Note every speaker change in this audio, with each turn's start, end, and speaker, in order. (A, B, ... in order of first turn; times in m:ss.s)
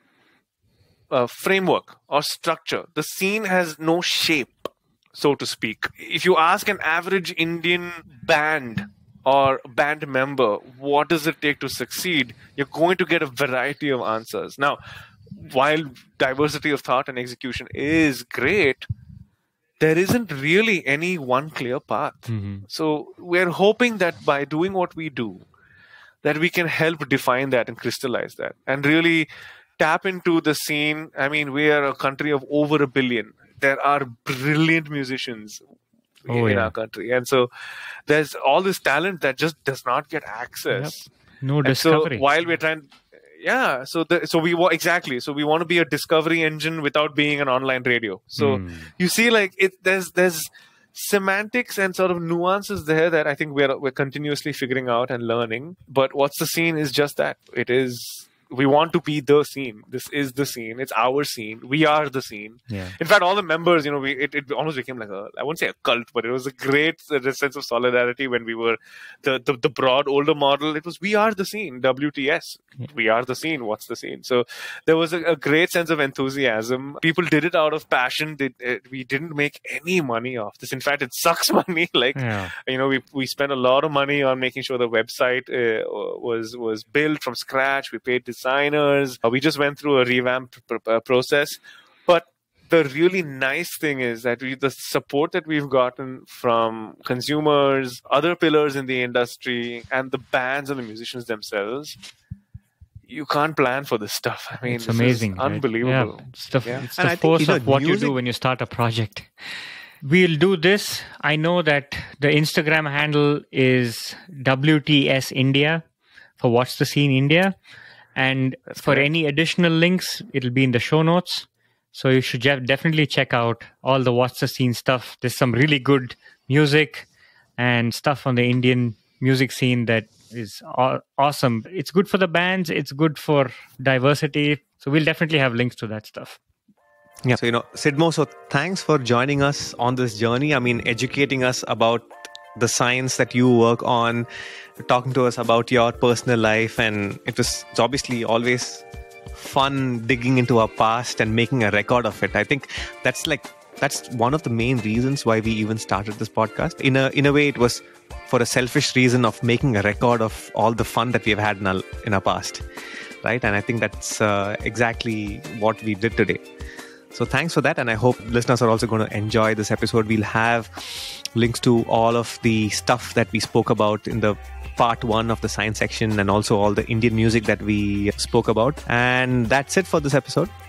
0:01.1-0:14.8 A
0:15.3-0:18.9 A
0:19.8-0:25.4 A
0:22.3-0:22.6 B
0:26.2-0:29.3 A
0:29.8-0:35.6 A
0:36.3-0:37.5 A
0:36.3-0:36.7 B
0:38.1-0:41.1 A
0:40.7-0:42.3 B
0:41.6-1:42.0 A
0:48.4-0:48.9 B
1:02.7-1:03.0 B
1:22.2-1:22.5 B
1:43.1-1:46.9 A
1:44.7-1:49.3 B
1:46.9-1:48.2 C
1:50.0-1:55.8 B
1:56.4-1:57.6 B
1:58.2-2:07.1 B
1:58.7-1:59.1 A
2:07.6-2:16.4 B
2:17.2-2:24.3 C
2:24.8-2:42.6 C
2:43.2-2:46.4 C
2:47.1-3:00.5 C